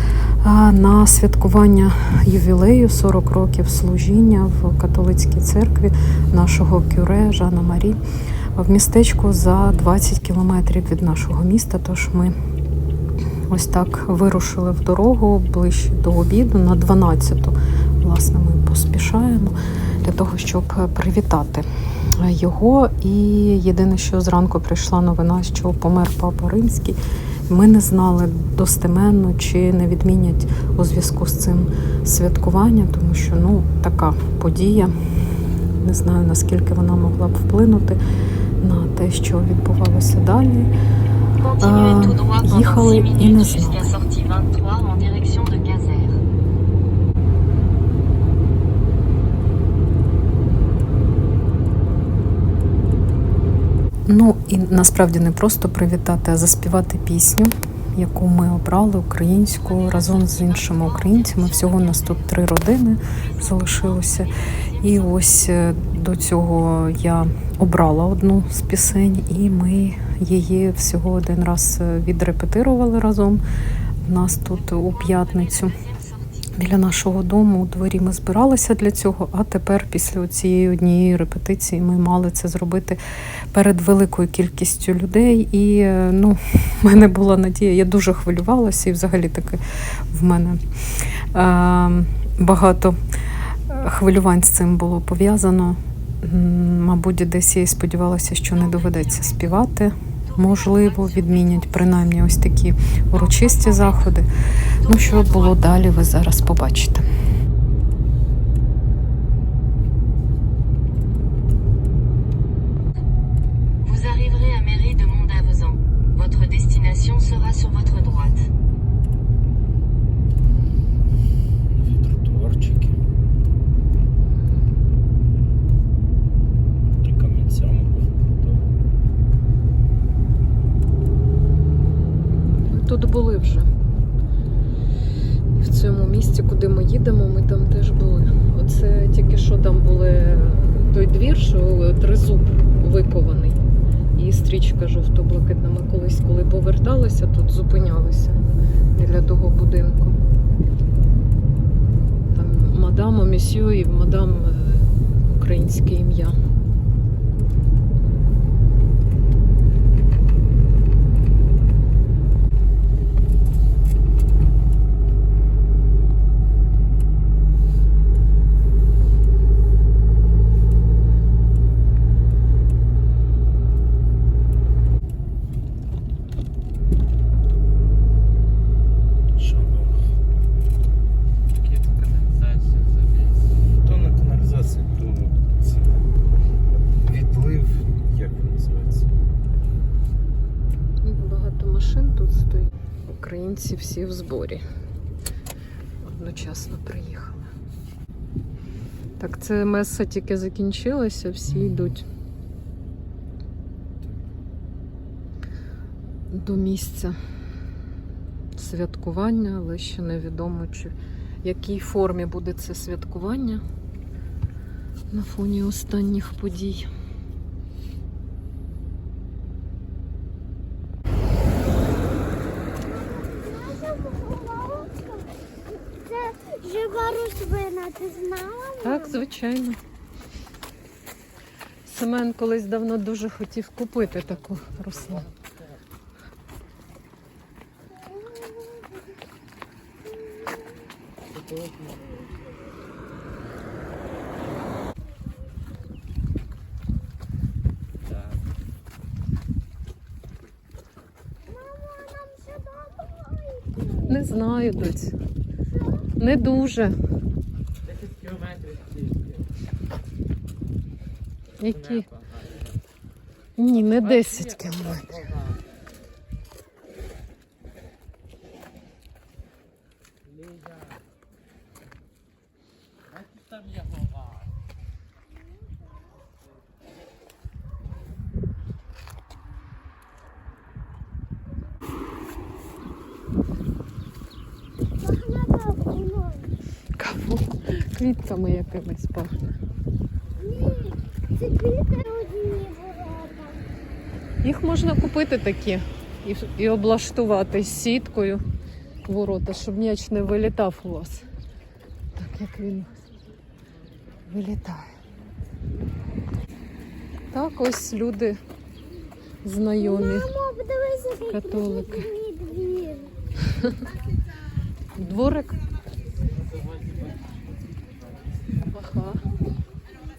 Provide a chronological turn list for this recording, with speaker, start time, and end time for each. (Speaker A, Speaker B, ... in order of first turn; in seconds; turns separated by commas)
Speaker A: 0.4-8.0, Speaker A: 8.6-12.3, Speaker A: 13.5-21.6, Speaker A: 22.2-27.0, Speaker A: 27.5-34.9, Speaker A: 35.8-38.0, Speaker A: 38.6-40.7, Speaker B: 41.4-46.2, Speaker A: 41.6-43.9, Speaker A: 54.1-73.4, Speaker B: 59.6-62.1, Speaker B: 63.2-65.0, Speaker A: 74.0-75.8, Speaker B: 74.8-76.2, Speaker A: 76.5-83.0, Speaker A: 83.5-89.6, Speaker A: 90.1-90.6, Speaker A: 91.3-93.0, Speaker A: 93.7-104.3, Speaker B: 98.5-99.0, Speaker B: 100.3-101.9, Speaker B: 103.1-104.1, Speaker B: 104.8-105.5, Speaker A: 104.8-107.0, Speaker B: 113.8-118.4, Speaker C: 121.7-123.0, Speaker A: 124.3-124.6, Speaker C: 127.0-128.8, Speaker A: 132.7-133.7, Speaker A: 135.6-143.6, Speaker A: 144.2-148.4, Speaker A: 148.9-150.2, Speaker A: 152.3-156.4, Speaker C: 179.3-180.1, Speaker D: 181.5-183.5, Speaker C: 183.8-186.0, Speaker C: 187.0-189.1, Speaker A: 191.0-194.6, Speaker A: 196.0-197.5, Speaker A: 199.2-202.0, Speaker C: 201.6-201.9, Speaker A: 206.3-207.2, Speaker A: 208.6-213.6, Speaker A: 215.1-216.9, Speaker E: 222.8-229.2, Speaker A: 228.8-229.8, Speaker A: 231.8-235.2, Speaker D: 234.0-235.8, Speaker E: 238.1-238.8, Speaker D: 241.3-242.1, Speaker D: 248.0-248.5, Speaker E: 251.5-254.2, Speaker A: 254.1-255.1, Speaker E: 255.7-256.1, Speaker A: 256.2-256.9, Speaker D: 257.8-259.5, Speaker A: 261.6-262.1, Speaker D: 261.6-262.8, Speaker A: 263.6-265.1, Speaker D: 263.7-265.6, Speaker D: 270.2-271.0, Speaker D: 273.1-274.5, Speaker E: 285.0-286.5, Speaker A: 287.0-289.5, Speaker E: 290.4-293.6, Speaker A: 294.4-298.4, Speaker A: 299.1-301.2, Speaker A: 302.2-302.9, Speaker A: 304.3-304.8, Speaker A: 307.3-308.4, Speaker A: 309.4-310.3, Speaker E: 309.8-313.1, Speaker A: 311.3-312.1, Speaker A: 314.9-315.5, Speaker D: 316.7-317.1, Speaker A: 318.7-319.2